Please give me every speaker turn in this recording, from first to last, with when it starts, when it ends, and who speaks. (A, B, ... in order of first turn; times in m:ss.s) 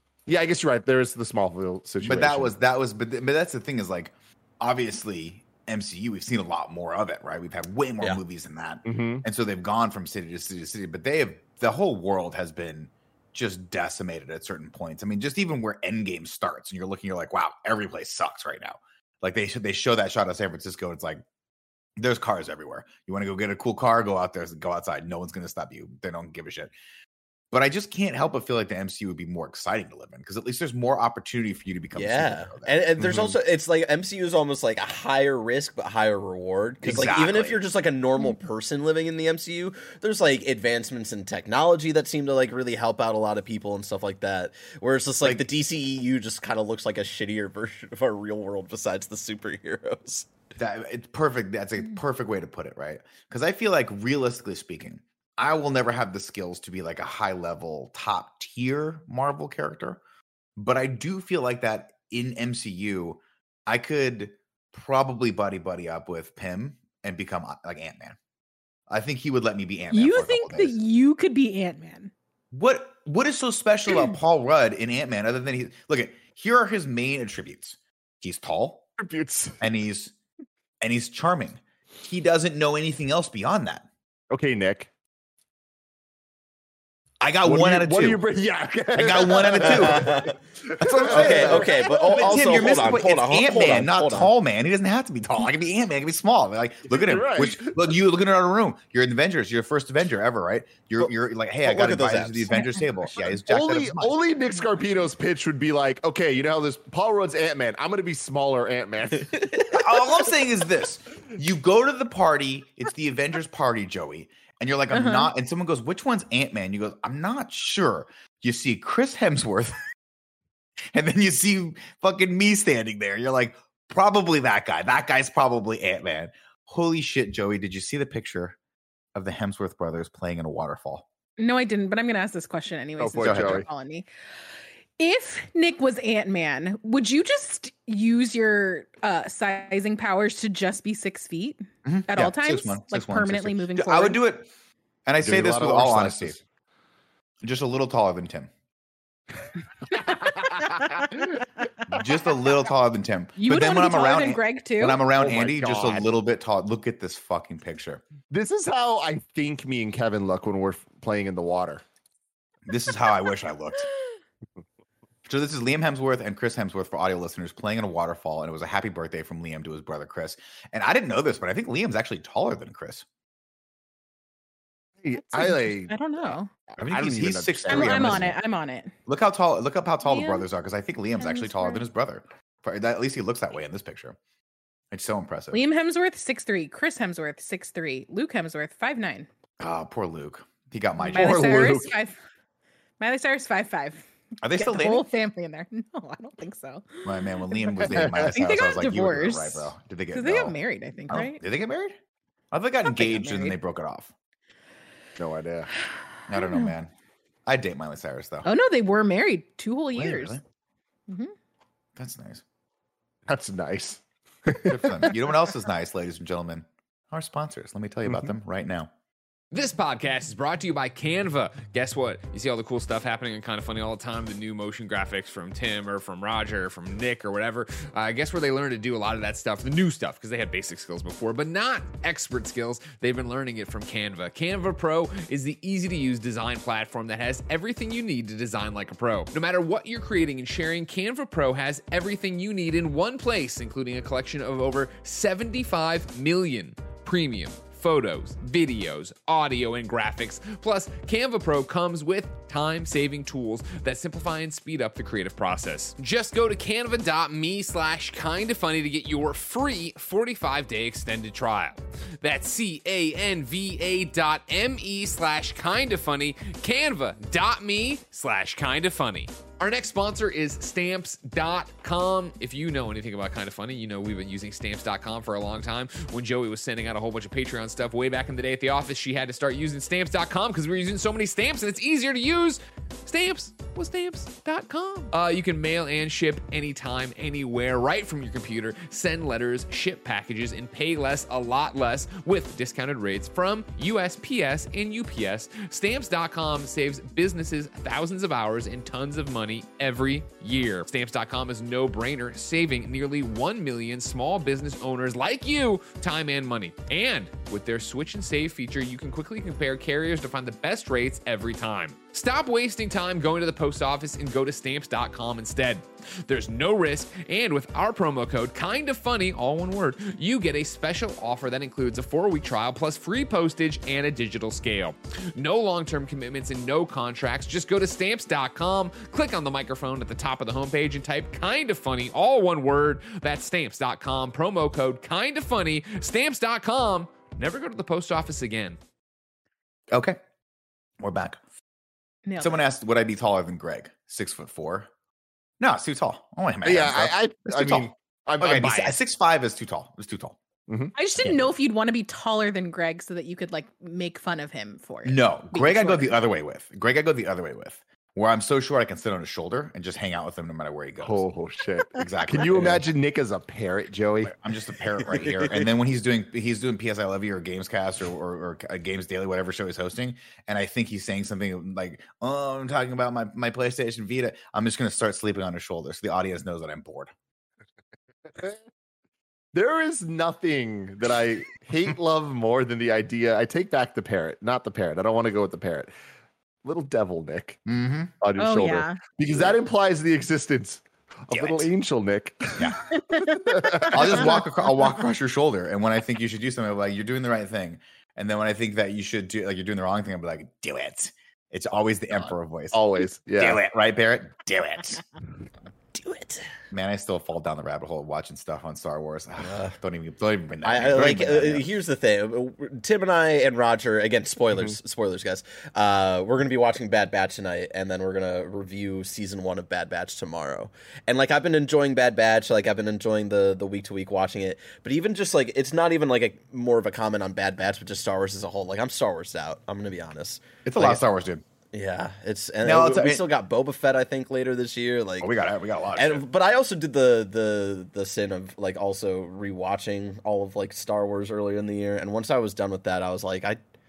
0:00.3-0:02.5 A
0:02.0-0:21.2 B
0:08.8-0:09.2 A
0:22.0-0:26.7 B
0:27.5-0:32.8 B
0:31.9-0:50.3 C
0:33.0-0:33.4 A
0:36.8-0:37.6 B
0:50.6-1:00.0 B
1:00.6-1:08.2 B
1:08.9-1:10.7 B
1:09.9-1:12.1 D
1:12.5-1:18.9 B
1:19.0-1:19.5 A
1:19.6-1:20.1 B
1:20.8-1:23.9 B
1:24.3-1:24.9 A
1:27.2-1:28.2 B
1:27.4-1:32.9 A
1:28.9-1:44.2 B
1:29.6-1:30.3 C
1:31.1-1:34.3 C
1:36.9-1:37.7 A
1:41.6-1:42.5 C
1:42.5-1:42.8 D
1:43.5-1:49.8 A
1:49.7-1:59.7 B
1:54.9-1:55.3 D
2:00.9-2:08.6 B
2:09.1-2:11.0 B
2:11.4-2:14.1 D
2:13.0-2:13.7 A
2:13.2-2:13.6 B
2:15.0-2:24.2 D
2:21.8-2:24.5 B
2:25.0-2:26.4 B
2:25.2-2:26.4 A
2:27.4-2:28.5 B
2:30.0-2:30.7 A
2:31.9-2:38.0 B
2:33.4-2:35.0 D
2:35.2-2:36.1 A
2:38.3-2:41.8 A
2:42.7-2:43.9 B
2:45.3-2:53.0 B
2:55.0-2:58.3 A
2:55.1-2:56.5 D
2:56.8-2:58.4 B
2:57.7-2:58.9 D
2:59.0-3:04.2 B
3:00.0-3:00.4 D
3:01.2-3:01.8 D
3:04.9-3:05.6 B
3:05.5-3:09.3 D
3:09.6-3:11.8 B
3:11.0-3:12.2 D
3:11.1-3:11.9 A
3:13.0-3:21.4 D
3:14.4-3:15.1 B
3:17.0-3:20.6 B
3:17.9-3:18.3 A
3:21.1-3:21.9 B
3:22.5-3:24.1 B
3:22.8-3:23.6 D
3:25.2-3:25.7 A
3:26.3-3:26.9 B
3:26.3-3:26.7 D
3:27.4-3:28.5 B
3:28.4-3:30.4 D
3:29.9-3:30.4 B
3:32.0-3:32.4 B
3:33.3-3:35.1 A
3:34.6-3:38.9 B
3:38.0-3:38.3 A
3:39.5-5:38.8 E
5:39.9-5:40.2 B
5:41.0-5:41.4 B
5:42.2-5:42.6 D
5:42.4-5:44.9 B
5:45.6-5:50.4 B
5:46.6-5:49.0 A
5:50.7-5:50.9 A
5:50.9-5:56.1 D
5:55.0-6:01.3 B
6:01.0-6:04.3 A
6:02.0-6:02.8 B
6:04.2-6:17.1 B
6:05.1-6:05.6 C
6:18.3-6:18.6 A
6:19.5-6:25.9 A
6:26.6-6:27.6 A
6:27.6-6:28.1 B
6:28.2-6:34.4 A
6:28.4-6:29.0 D
6:31.3-6:31.7 B
6:32.6-6:32.8 B
6:33.1-6:33.8 D
6:33.9-6:42.8 B
6:42.7-6:43.6 A
6:43.4-6:45.0 B
6:46.7-6:51.7 B
6:49.4-6:49.8 C
6:50.6-7:11.0 C
7:10.6-7:11.4 B
7:11.7-7:15.3 C
7:12.6-7:13.2 B
7:15.2-7:16.2 B
7:16.0-7:23.6 C